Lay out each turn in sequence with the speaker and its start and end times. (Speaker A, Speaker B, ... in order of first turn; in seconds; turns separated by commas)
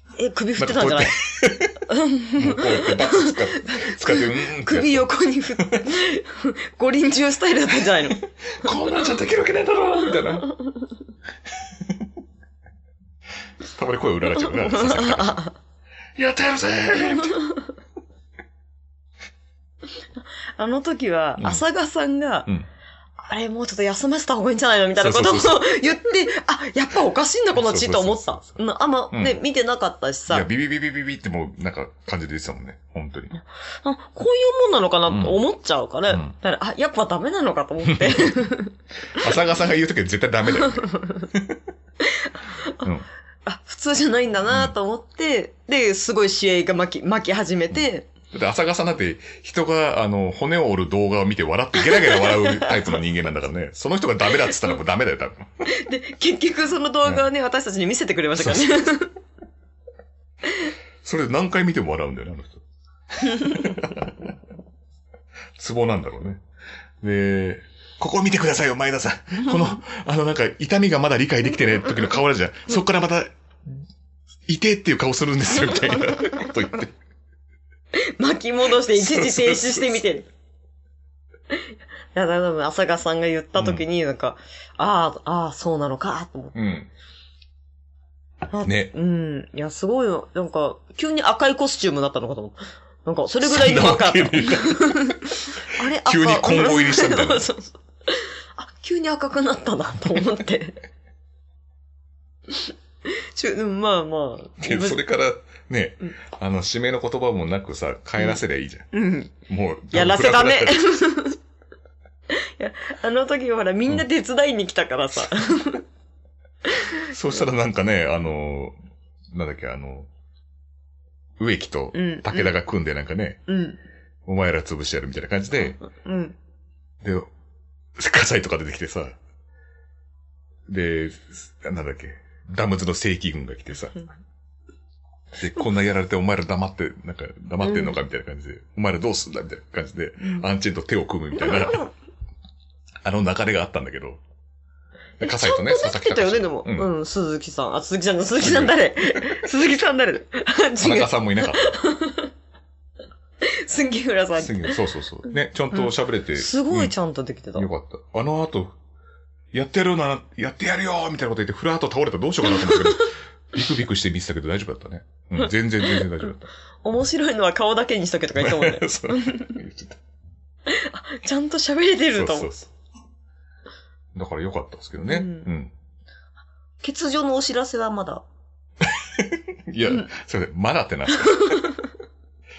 Speaker A: 0.2-1.2, Speaker B: 0.6-1.8, Speaker A: 1.9-8.2, Speaker B: 2.4-5.1, Speaker B: 5.6-5.8, Speaker B: 8.2-10.5, Speaker B: 11.8-12.1, Speaker B: 13.6-15.4, Speaker A: 14.5-15.5, Speaker B: 16.2-17.4, Speaker A: 17.1-17.6, Speaker A: 20.6-22.5, Speaker A: 23.2-30.5, Speaker B: 25.0-25.9, Speaker B: 27.5-28.6, Speaker B: 29.1-29.4, Speaker B: 30.3-33.3, Speaker A: 33.8-38.7, Speaker B: 35.1-35.4, Speaker B: 36.1-36.4, Speaker B: 37.9-38.3, Speaker B: 39.1-41.6, Speaker A: 40.7-41.3, Speaker A: 42.0-42.9, Speaker A: 43.5-48.1, Speaker B: 44.5-44.7, Speaker B: 47.7-55.5, Speaker A: 51.9-52.9, Speaker A: 55.7-59.1, Speaker B: 58.4-58.7, Speaker B: 61.0-62.6, Speaker B: 63.1-64.3, Speaker A: 63.3-63.7, Speaker B: 65.6-66.4, Speaker B: 67.0-73.3, Speaker B: 74.5-76.9, Speaker A: 77.9-80.3, Speaker B: 78.9-80.0, Speaker A: 81.5-86.6, Speaker B: 83.6-83.8, Speaker B: 86.5-86.9, Speaker A: 88.5-100.8, Speaker B: 88.6-88.9, Speaker B: 93.4-95.3, Speaker B: 95.9-97.5, Speaker A: 102.6-105.0, Speaker B: 104.6-108.9, Speaker A: 108.9-109.3, Speaker B: 109.5-111.0, Speaker A: 109.9-111.4, Speaker A: 112.3-115.8, Speaker A: 116.7-117.0, Speaker B: 117.0-118.8, Speaker B: 119.3-120.1, Speaker B: 121.4-123.4, Speaker A: 121.9-122.5, Speaker A: 123.5-123.8, Speaker B: 124.3-125.8, Speaker A: 125.8-126.4, Speaker B: 127.0-127.3, Speaker B: 128.0-129.2, Speaker B: 130.7-134.0, Speaker B: 135.3-141.9, Speaker A: 137.6-138.0, Speaker B: 143.0-144.2, Speaker B: 145.2-146.9, Speaker A: 145.2-152.3, Speaker B: 148.4-149.4, Speaker B: 150.8-151.8, Speaker A: 153.4-154.8, Speaker B: 154.4-156.9, Speaker A: 155.7-157.7, Speaker B: 157.6-158.7, Speaker B: 159.5-166.5, Speaker A: 162.6-163.0, Speaker A: 165.9-166.2, Speaker A: 166.8-169.6, Speaker B: 168.4-170.0, Speaker A: 170.7-172.5, Speaker B: 172.1-172.7, Speaker B: 174.1-175.7, Speaker A: 175.1-175.5, Speaker A: 176.8-178.2, Speaker B: 178.8-181.7, Speaker A: 181.3-181.7